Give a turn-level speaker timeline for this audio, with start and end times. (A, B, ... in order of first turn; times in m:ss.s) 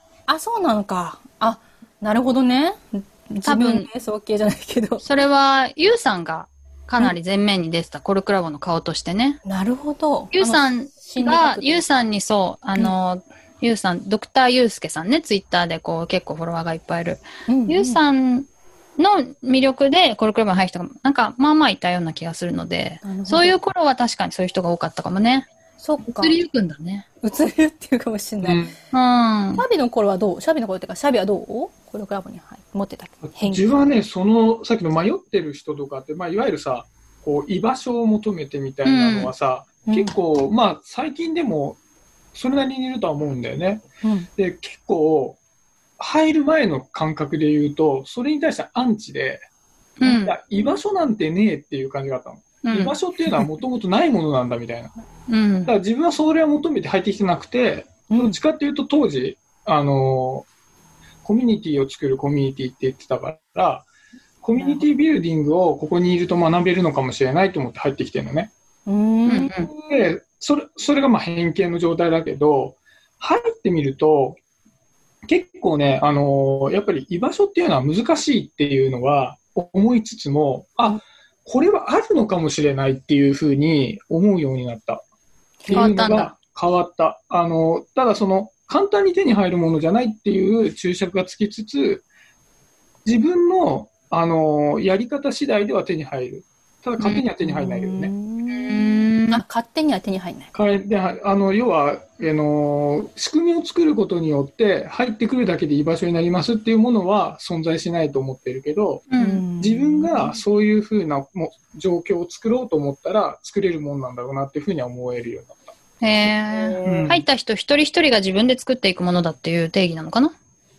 0:00.3-0:05.0 A
0:03.4-0:03.9 B
0:05.0-0:09.4 B
0:09.4-0:11.9 A
0:10.3-0:25.5 B
0:17.5-0:18.0 A
0:23.0-0:23.6 A
0:25.8-0:26.4 A
0:26.1-0:27.1 B
0:27.2-0:28.7 A
0:28.4-0:28.8 C
0:28.9-0:29.6 B
0:29.6-0:33.8 A
0:33.4-0:41.8 C
0:38.8-0:39.3 B
0:39.9-0:40.2 A
0:42.3-0:43.8 C
0:44.0-0:44.3 A
0:44.4-0:45.4 C
0:46.0-0:49.4 C
0:50.0-0:50.3 B
0:50.0-0:54.9 C
0:52.6-0:52.9 B
0:55.3-0:55.7 B
0:55.6-1:00.5 C
0:58.1-0:58.4 A
1:01.2-1:03.9 C
1:04.4-1:08.5 C
1:04.6-1:04.8 A
1:08.9-1:09.5 A
1:09.3-1:09.7 B
1:09.7-1:14.4 C
1:15.3-1:25.0 C
1:25.6-1:26.0 A
1:25.7-1:32.0 C
1:25.7-1:26.3 B
1:33.1-1:38.1 C
1:37.4-1:40.5 A
1:38.5-1:39.4 B
1:40.5-1:49.1 C
1:49.1-1:49.4 B
1:49.2-1:50.3 A
1:49.6-1:55.8 C
1:56.0-2:00.3 B
1:56.8-1:57.2 C